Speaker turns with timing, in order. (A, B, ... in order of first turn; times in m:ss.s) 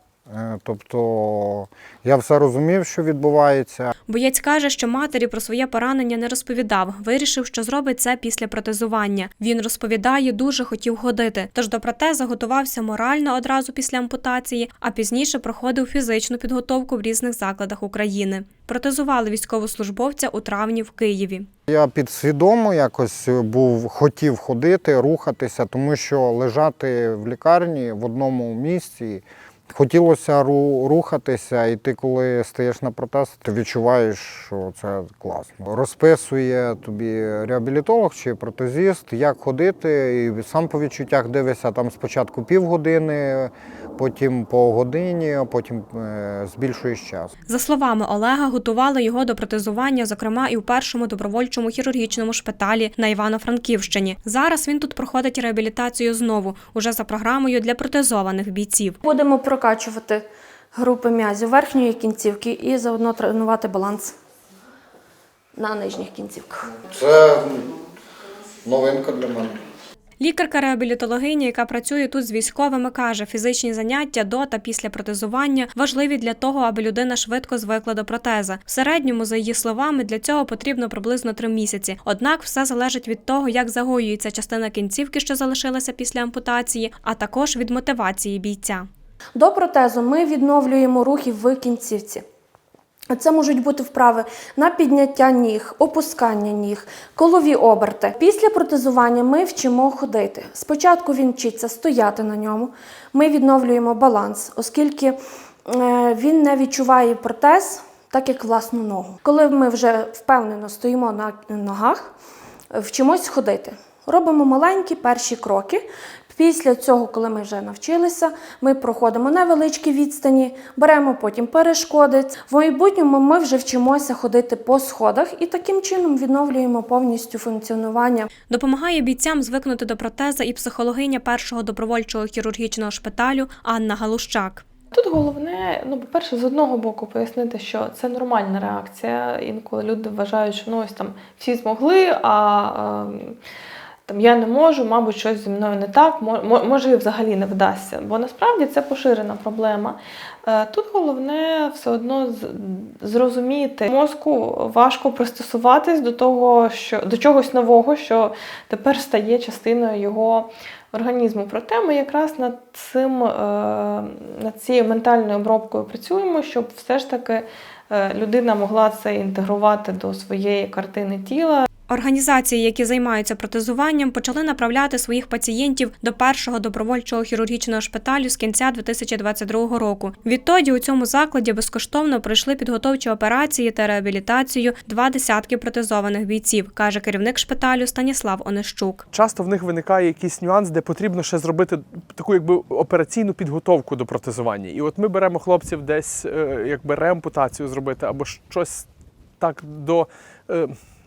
0:00.3-0:03.9 A
0:04.1-0:21.5 B
0:21.7-0:47.3 A
0:47.5-0:59.0 B
0:59.0-1:04.1 C
1:05.6-1:06.7 C
1:06.8-1:07.8 A
1:08.6-1:09.6 A
1:10.2-1:28.9 B
1:29.4-1:32.2 C
1:33.1-1:52.1 C
1:52.7-2:08.3 C
2:08.5-2:14.6 B
2:14.9-2:23.4 D
2:24.1-2:51.6 D
2:51.9-3:09.0 B
3:09.1-3:18.9 E
3:19.4-3:20.8 E